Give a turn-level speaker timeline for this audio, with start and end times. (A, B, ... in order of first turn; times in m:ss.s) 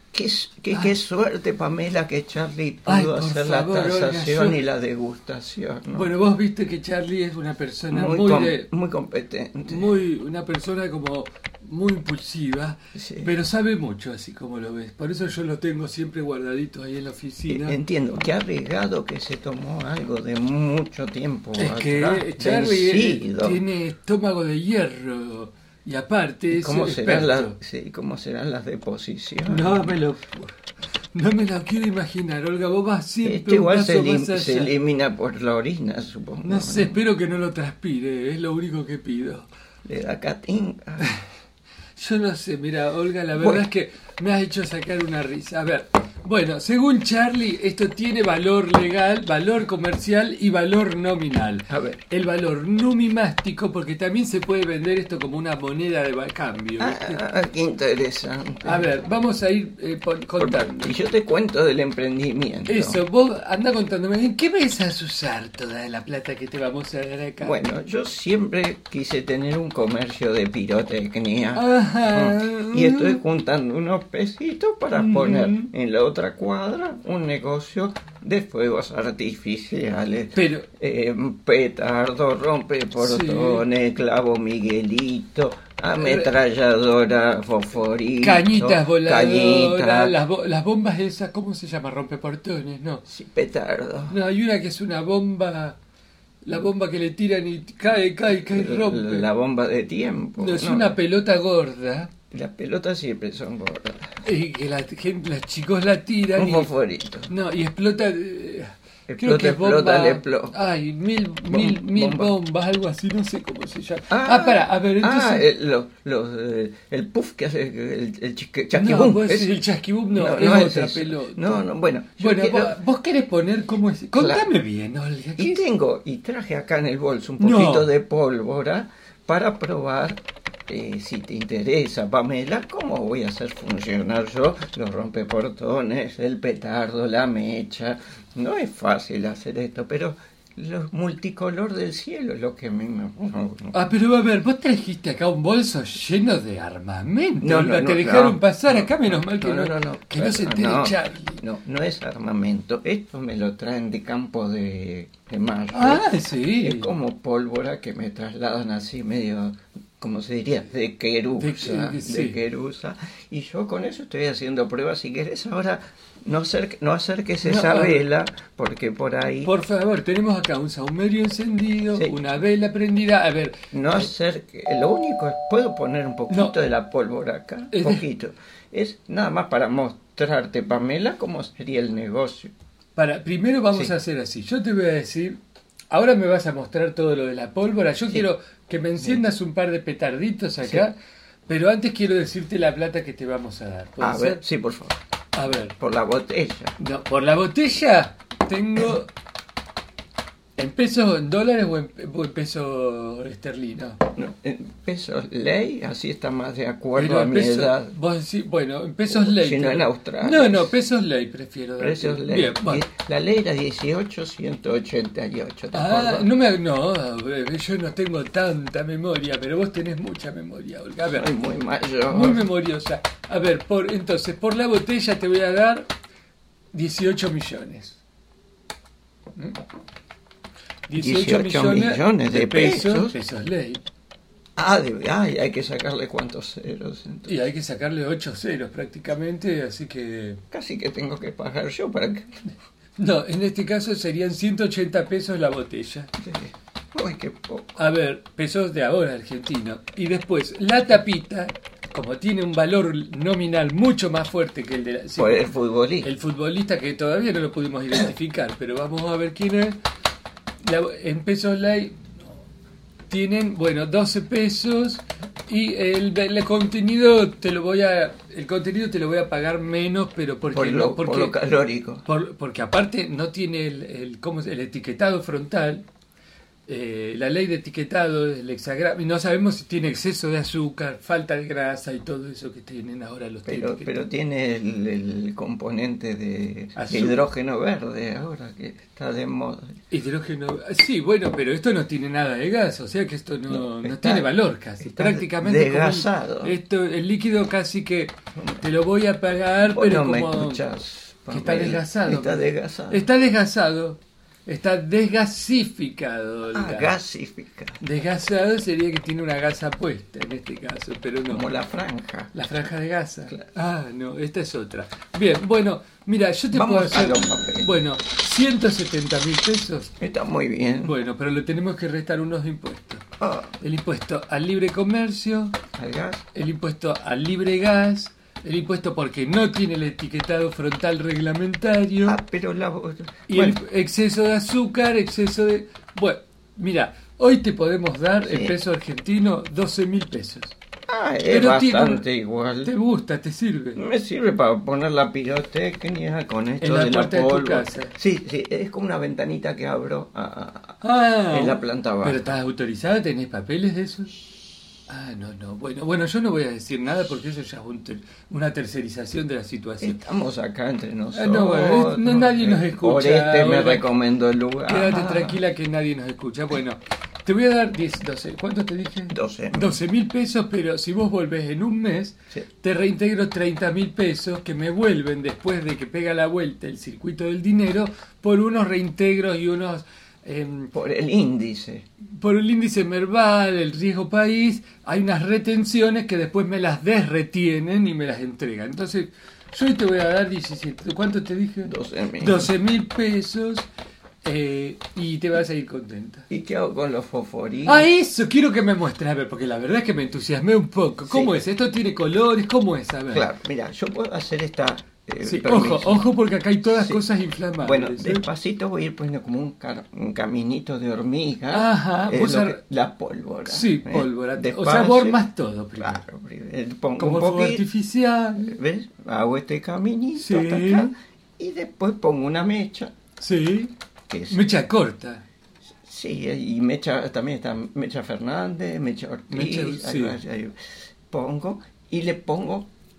0:00.1-0:06.1 A
0:02.8-0:04.6 B
0:05.9-0:08.7 B
0:07.9-0:09.9 A
0:09.7-0:17.8 B
0:12.9-0:13.3 A
0:17.5-0:23.6 A
0:21.6-0:27.6 B
0:26.5-0:30.0 A
0:29.5-0:30.5 B
0:31.1-0:34.7 B
0:33.2-0:37.0 A
0:36.4-0:39.5 B
0:39.8-0:41.1 A
0:42.0-0:57.2 B
0:43.3-0:43.6 A
0:51.7-0:52.0 A
0:56.8-0:58.9 A
0:58.6-1:00.9 B
1:00.4-1:03.0 A
1:02.7-1:07.6 B
1:07.4-1:30.2 A
1:11.5-1:13.2 B
1:14.9-1:15.7 B
1:20.3-1:20.7 B
1:23.0-1:23.6 B
1:25.9-1:26.4 B
1:28.2-1:33.0 B
1:33.1-1:34.2 A
1:34.1-1:35.8 B
1:36.4-1:39.3 B
1:38.3-1:41.0 A
1:40.4-1:42.1 B
1:42.3-1:44.1 A
1:44.2-1:46.7 B
1:46.4-1:47.3 A
1:47.3-1:55.4 B
1:49.1-1:50.6 A
1:51.5-1:52.3 A
1:54.1-1:59.5 A
1:58.7-2:01.6 B
2:00.1-2:02.8 A
2:02.2-2:05.6 B
2:04.1-2:04.4 A
2:05.4-2:23.8 A
2:07.4-2:07.9 B
2:23.7-2:31.4 B
2:27.4-2:36.1 A
2:35.7-2:36.9 B
2:36.6-2:49.5 A
2:41.4-2:42.4 B
2:47.4-2:48.0 B
2:49.4-2:53.6 B
2:53.7-3:02.5 A
2:56.3-2:56.6 B
2:57.7-2:58.0 B
3:03.0-3:05.4 B
3:05.9-3:11.0 B
3:10.6-3:10.9 A
3:11.5-3:14.4 B
3:14.0-3:15.0 A
3:15.3-3:15.8 B
3:15.8-3:16.8 A
3:16.8-3:19.1 B
3:20.6-3:24.0 B
3:24.1-3:27.9 A
3:27.0-3:32.8 B
3:29.1-3:30.7 A
3:31.8-3:36.3 A
3:35.7-3:41.3 B
3:41.0-3:42.5 A
3:42.1-3:45.9 B
3:46.7-3:48.0 B
3:50.9-3:53.8 B
3:50.9-3:53.2 A
3:54.6-3:57.4 A
3:57.3-4:00.4 B
4:00.5-4:02.4 A
4:03.0-4:06.1 B
4:06.2-4:07.8 A
4:07.8-4:15.5 B
4:15.2-4:16.1 A
4:16.0-4:19.8 B
4:20.6-4:22.0 B
4:23.1-4:31.4 B
4:30.5-4:32.0 A
4:32.0-4:35.8 B
4:36.7-4:44.0 B
4:43.4-4:49.7 A
4:46.8-4:47.2 B
4:49.9-5:00.6 B
4:53.5-4:54.3 A
4:54.8-4:56.5 A
4:58.4-4:58.6 A
4:59.7-5:03.1 A
5:01.3-5:06.9 B
5:06.5-5:07.8 A
5:07.8-5:11.5 B
5:11.3-5:12.3 A
5:12.3-5:19.9 B
5:16.5-5:17.7 A
5:20.0-5:20.9 A
5:20.8-5:23.0 B
5:23.2-5:23.5 A
5:23.6-5:25.6 B
5:25.8-5:26.2 A
5:26.3-5:32.2 B
5:32.0-5:33.6 A
5:33.3-5:40.5 B
5:38.2-5:38.6 A
5:40.9-5:42.7 A
5:41.3-5:42.0 B
5:42.6-5:43.8 B
5:43.8-5:52.4 A
5:46.6-5:47.9 B
5:50.8-5:54.2 B
5:54.9-6:00.0 B
5:59.8-6:05.4 A
6:01.1-6:03.9 B
6:04.7-6:20.7 B
6:09.1-6:09.8 A
6:20.7-6:21.8 A
6:22.0-6:33.7 B
6:31.6-6:32.5 A
6:34.2-6:36.3 B
6:36.3-6:37.9 A
6:37.6-6:43.3 B
6:41.0-6:41.4 A
6:43.1-6:46.1 A
6:45.2-6:48.2 B
6:46.6-6:47.0 A
6:47.6-6:55.2 A
6:51.5-6:52.6 B
6:53.4-6:56.0 B
6:55.8-6:57.6 A
6:57.0-6:58.5 B
6:58.4-7:02.9 A
7:00.2-7:00.9 B
7:03.2-7:03.7 B
7:04.1-7:04.5 A
7:04.3-7:05.2 B
7:05.8-7:10.5 A
7:09.3-7:10.2 B
7:11.1-7:12.7 A